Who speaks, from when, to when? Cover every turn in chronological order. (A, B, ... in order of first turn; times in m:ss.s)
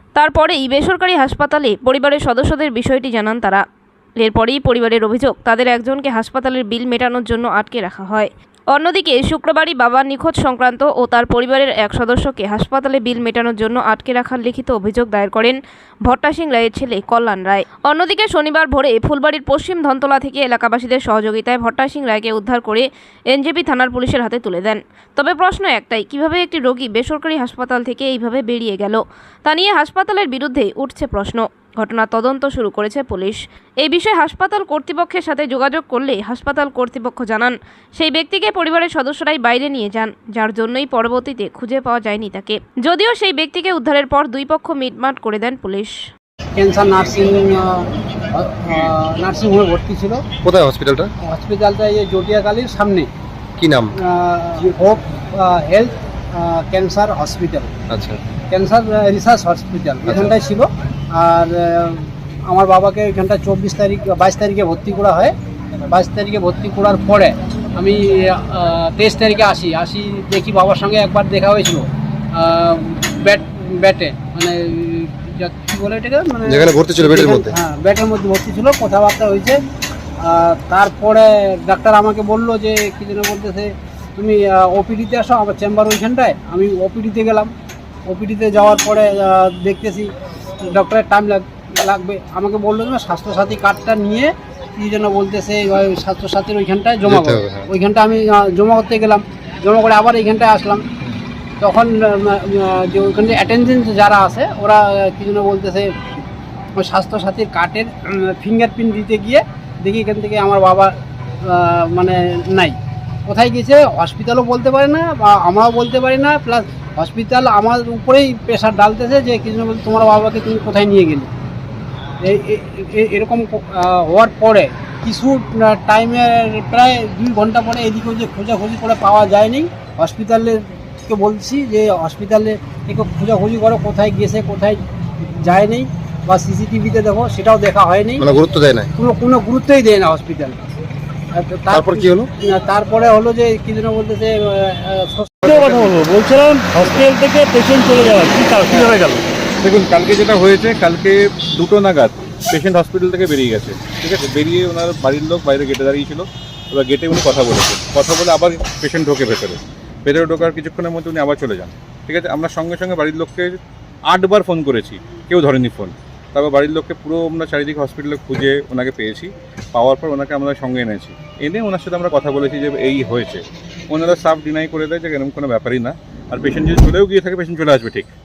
0:00.2-0:03.6 A
0:04.2-0:46.0 A
0:46.6-0:50.2 B
0:50.4-0:51.1 C
0:51.2-0:53.1 B
0:53.6-0:53.9 C
0:54.0-0:57.7 B
0:57.9-0:58.2 C
0:58.5-1:05.3 B
1:00.1-1:00.3 C
1:05.9-1:19.6 B
1:16.5-1:17.5 C
1:20.2-1:27.5 B
1:28.1-1:30.1 B
1:30.6-1:40.8 B
1:37.1-1:37.7 C
1:41.6-1:45.9 B
1:46.8-1:50.9 B
1:51.4-1:52.8 B
1:53.3-2:01.3 B
2:02.2-2:14.8 B
2:15.4-2:18.2 B
2:18.2-2:18.9 C
2:19.0-2:20.6 B
2:21.3-2:25.5 B
2:21.7-2:22.3 C
2:25.4-2:29.2 D
2:25.4-2:26.0 E
2:28.7-2:28.9 E
2:29.6-2:58.1 E